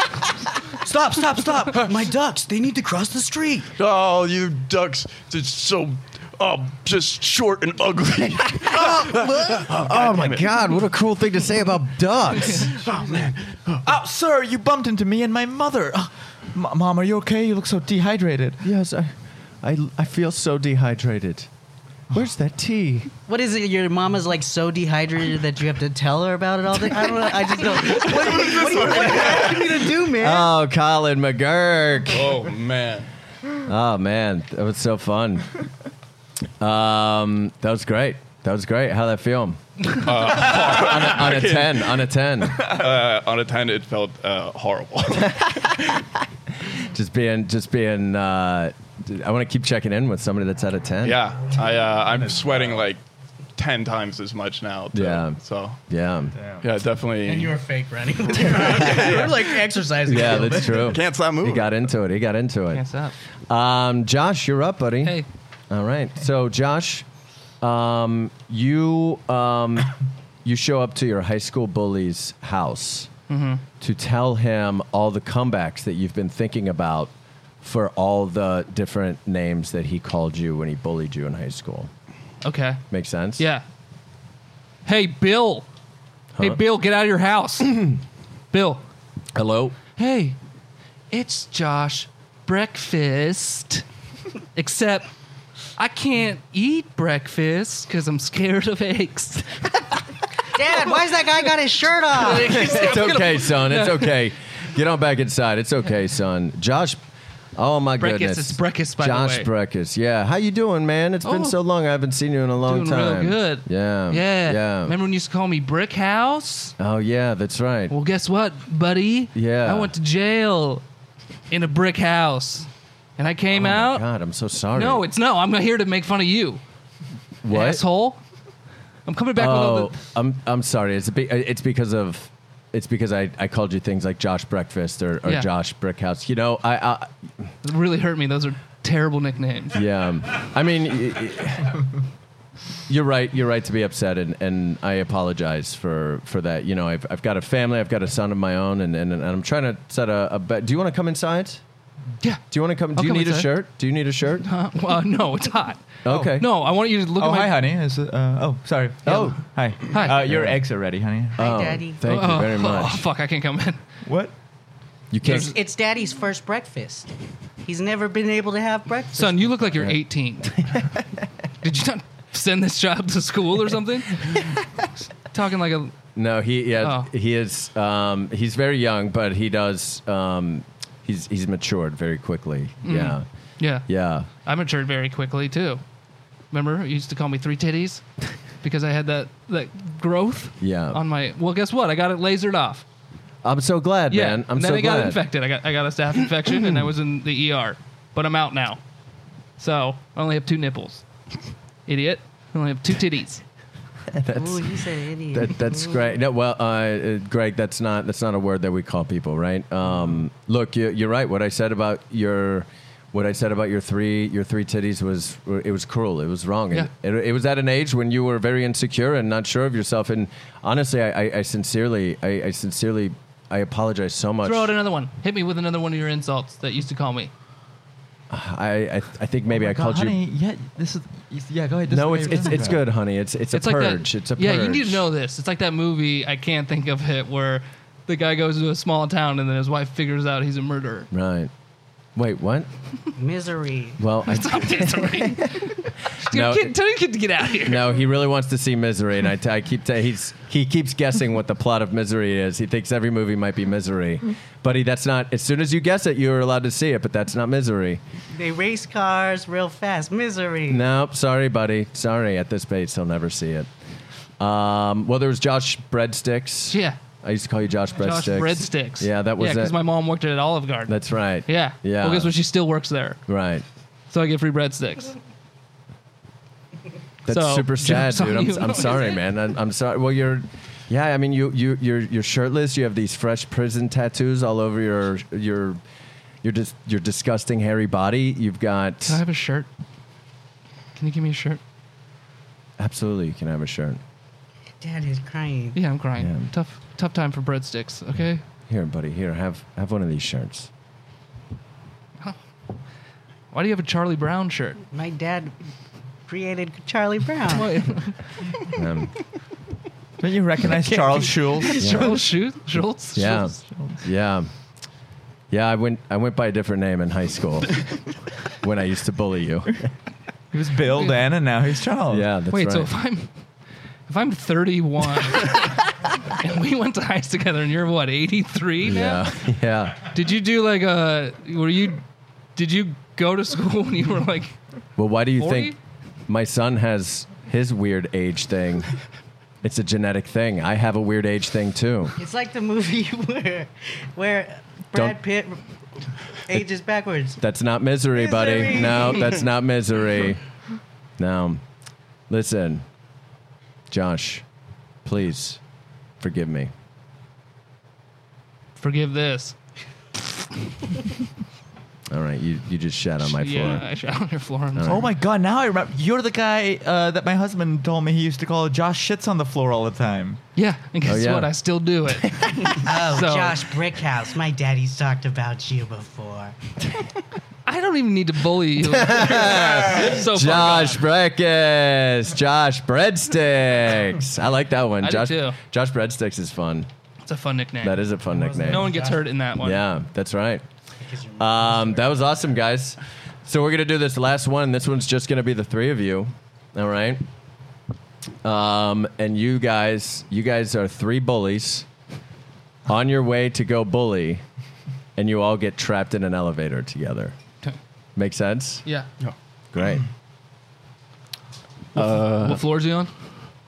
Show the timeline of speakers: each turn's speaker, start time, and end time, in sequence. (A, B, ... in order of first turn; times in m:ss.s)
0:00.8-0:03.7 A
0:01.7-0:02.0 B
0:03.8-0:10.7 B
0:08.7-0:12.7 C
0:12.5-0:14.0 B
0:13.8-0:18.6 D
0:18.6-0:21.5 C
0:22.1-0:23.1 C
0:23.3-0:30.5 A
0:27.8-0:29.8 B
0:30.2-0:32.3 C
0:32.1-0:33.1 B
0:33.6-0:35.5 C
0:36.6-0:42.6 C
0:40.0-0:42.0 B
0:42.6-0:45.8 B
0:46.7-0:51.2 C
0:51.0-0:53.0 B
0:53.6-0:55.8 B
0:54.9-0:55.4 C
0:55.9-0:56.3 C
0:56.4-0:56.6 D
0:56.6-0:57.6 B
0:57.2-1:00.9 A
0:58.2-0:59.6 B
1:00.0-1:02.8 C
1:00.1-1:01.8 B
1:02.7-1:03.1 E
1:03.5-1:07.0 C
1:07.6-1:13.1 C
1:13.3-1:13.6 E
1:13.8-1:21.9 C
1:22.4-1:22.8 E
1:22.9-1:23.4 C
1:23.4-1:23.6 E
1:24.8-1:25.7 E
1:26.4-1:26.6 C
1:26.4-1:28.0 E
1:28.5-1:28.8 E
1:29.3-1:29.8 C
1:29.9-1:30.4 E
1:31.1-1:33.8 E
1:34.6-1:35.1 E
1:35.8-1:39.8 E
1:40.5-1:42.7 A
1:42.1-1:44.2 E
1:42.3-1:47.0 C
1:47.6-1:54.9 C
1:48.0-1:49.5 E
1:51.2-1:51.6 E
1:52.6-1:56.7 E
1:56.8-1:57.9 C
1:57.9-2:00.8 E
1:59.3-1:59.9 C
2:01.5-2:04.0 E
2:03.5-2:05.0 C
2:04.7-2:06.6 E
2:07.4-2:07.8 C
2:07.5-2:08.2 E
2:09.0-2:09.9 E
2:09.3-2:17.1 C
2:17.6-2:19.8 E
2:19.7-2:21.9 C
2:22.9-2:31.6 C
2:32.5-2:34.5 C
2:32.9-2:33.5 E
2:34.4-2:37.6 E
2:36.0-2:36.5 C
2:36.1-2:36.3 D
2:37.1-2:41.4 D
2:39.0-2:40.6 C
2:39.9-2:40.2 E
2:41.4-2:43.0 C
2:41.4-2:42.0 A
2:42.0-2:43.8 E
2:44.0-2:44.3 D
2:45.1-2:45.5 C
2:45.2-2:45.5 E
2:45.2-2:47.1 A
2:47.6-2:49.7 A
2:49.2-2:50.8 E
2:51.6-2:54.6 E
2:55.2-2:55.9 E
2:56.2-3:03.2 C
2:56.8-2:57.1 E
3:02.8-3:03.9 E
3:03.8-3:04.3 C
3:04.4-3:05.8 E
3:06.5-3:08.0 E
3:08.6-3:12.8 E
3:10.6-3:11.0 C
3:13.4-3:15.2 C
3:14.1-3:18.8 E
3:19.6-3:21.0 E
3:21.8-3:23.4 E
3:24.2-3:24.7 C
3:24.3-3:26.0 A
3:25.3-3:44.8 C
3:44.4-3:47.3 E
3:48.3-3:50.2 C
3:49.5-3:52.8 D
3:51.9-3:55.0 C
3:53.5-4:01.1 E
4:01.1-4:01.5 C
4:02.2-4:02.7 C
4:03.2-4:04.0 A
4:04.0-4:05.7 C
4:04.3-4:08.0 E
4:06.2-4:06.7 C
4:07.6-4:18.0 C
4:18.3-4:20.8 A
4:20.7-4:23.7 C
4:24.4-4:29.7 C
4:26.7-4:27.0 E
4:28.0-4:33.2 E
4:30.9-4:32.3 C
4:33.3-4:33.6 C
4:34.1-4:35.1 E
4:37.2-4:45.8 C
4:37.3-4:39.2 E
4:46.4-4:49.2 C
4:49.0-4:49.7 E
4:51.0-4:51.6 E
4:52.8-4:54.0 C
4:54.8-4:55.8 A
4:55.7-4:58.4 E
4:56.2-4:56.5 C
4:58.7-5:00.7 C
5:03.5-5:04.8 E
5:04.9-5:05.5 A
5:06.3-5:07.9 A
5:07.5-5:08.1 E
5:08.7-5:09.1 C
5:10.2-5:12.0 D
5:10.7-5:13.5 E
5:11.8-5:12.2 C
5:13.1-5:14.5 C
5:13.5-5:14.0 D
5:15.5-5:17.8 C
5:18.6-5:19.9 C
5:20.5-5:22.3 D
5:22.1-5:22.9 C
5:22.5-5:23.3 E
5:24.1-5:29.3 E
5:28.8-5:30.0 C
5:30.1-5:32.0 E
5:32.6-5:34.6 E
5:35.0-5:35.7 C
5:35.4-5:35.8 E
5:36.3-5:38.9 C
5:39.6-5:42.1 C
5:42.2-5:45.6 A
5:46.4-5:47.4 A
5:47.4-5:50.4 C
5:48.1-5:49.3 A
5:51.2-5:51.6 C
5:52.3-5:52.8 C
5:53.9-5:54.4 C
5:55.0-5:55.6 C
5:56.2-5:56.7 C
5:58.8-5:59.5 E
6:02.1-6:03.8 C
6:03.2-6:05.0 E
6:04.8-6:05.1 C
6:04.8-6:10.4 D
6:10.6-6:13.6 E
6:11.0-6:11.5 C
6:12.8-6:16.5 A
6:17.6-6:21.0 E
6:18.8-6:26.9 C
6:25.0-6:25.6 E
6:27.2-6:28.0 E
6:27.8-6:29.0 C
6:28.3-6:29.2 A
6:28.6-6:29.8 E
6:29.6-6:30.6 C
6:31.0-6:32.2 A
6:31.4-6:37.2 C
6:38.4-6:41.8 C
6:42.9-6:44.4 C
6:45.2-6:47.3 C
6:48.2-6:48.8 C
6:49.7-6:50.0 C
6:51.9-6:52.6 B
6:51.9-6:53.1 E